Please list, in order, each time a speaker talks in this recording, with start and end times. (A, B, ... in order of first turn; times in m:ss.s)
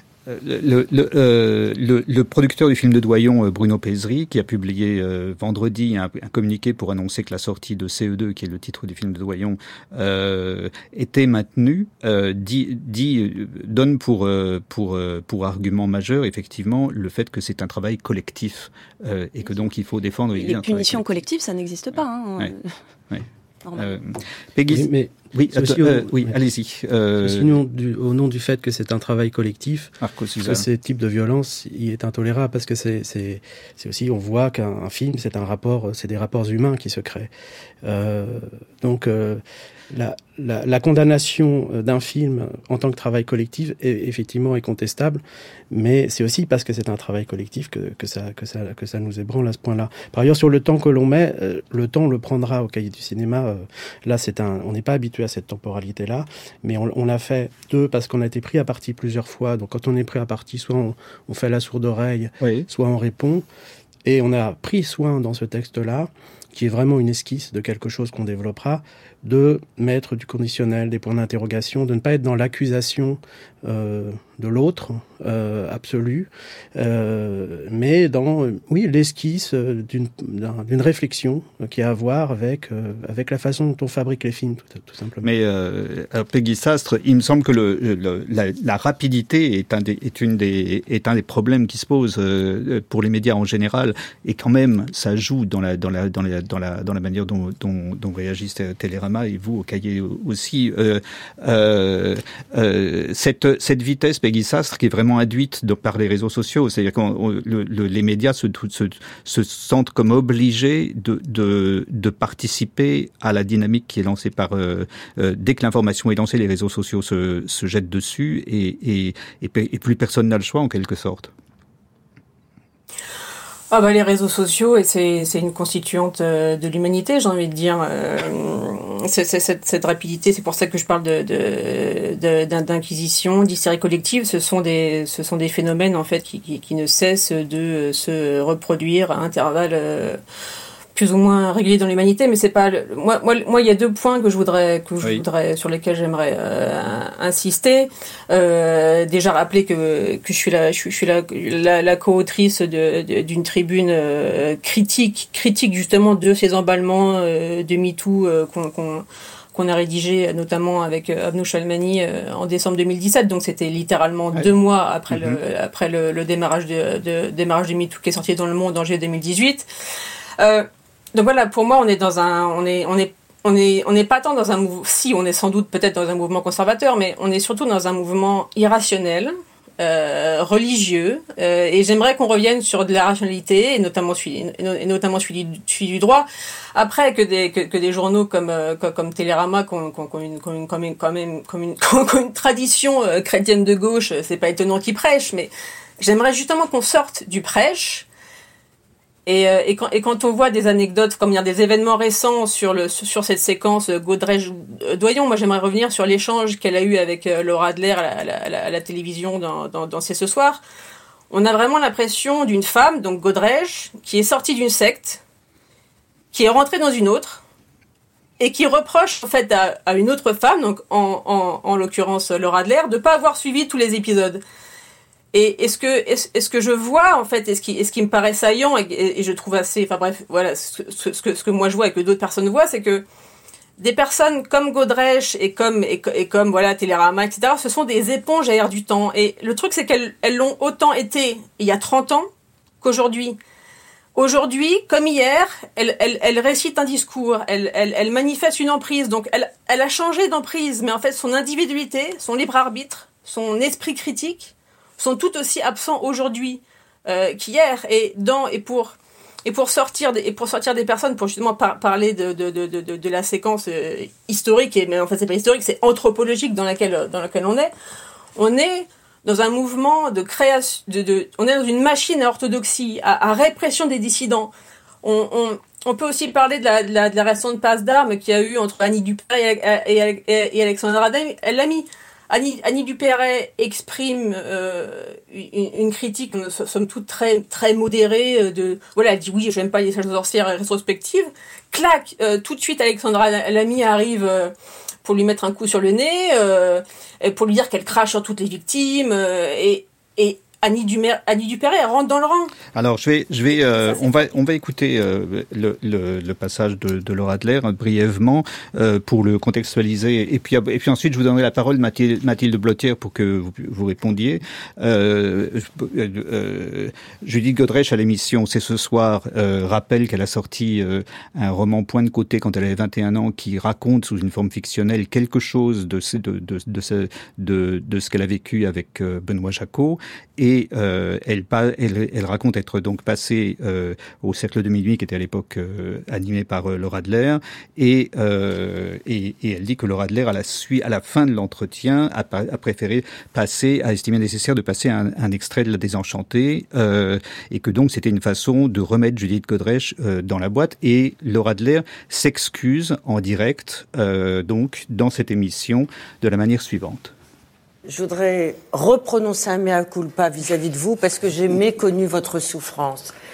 0:00.2-0:21.0 A
0:20.4-0:22.7 B
0:23.1-0:27.6 A
0:23.6-0:23.9 B
0:24.7-0:26.4 C
0:27.2-0:37.3 C
0:30.0-0:30.6 A
0:37.8-1:03.4 C
1:02.4-1:02.6 A
1:04.0-1:25.3 C
1:25.2-2:01.3 A
2:03.7-2:20.2 D
2:20.9-2:49.7 D
2:45.1-2:45.4 A
2:50.4-3:18.0 D
3:19.2-3:30.6 D
3:31.3-3:35.2 D
3:36.3-3:37.4 D
3:38.4-3:44.4 D
3:45.3-3:53.0 D
3:53.8-4:02.3 D
4:02.8-4:03.4 D
4:04.1-4:27.7 D
4:28.4-4:34.5 D
4:35.0-4:54.5 D
4:55.0-5:02.5 D
5:02.7-5:57.1 A
5:57.9-6:03.1 E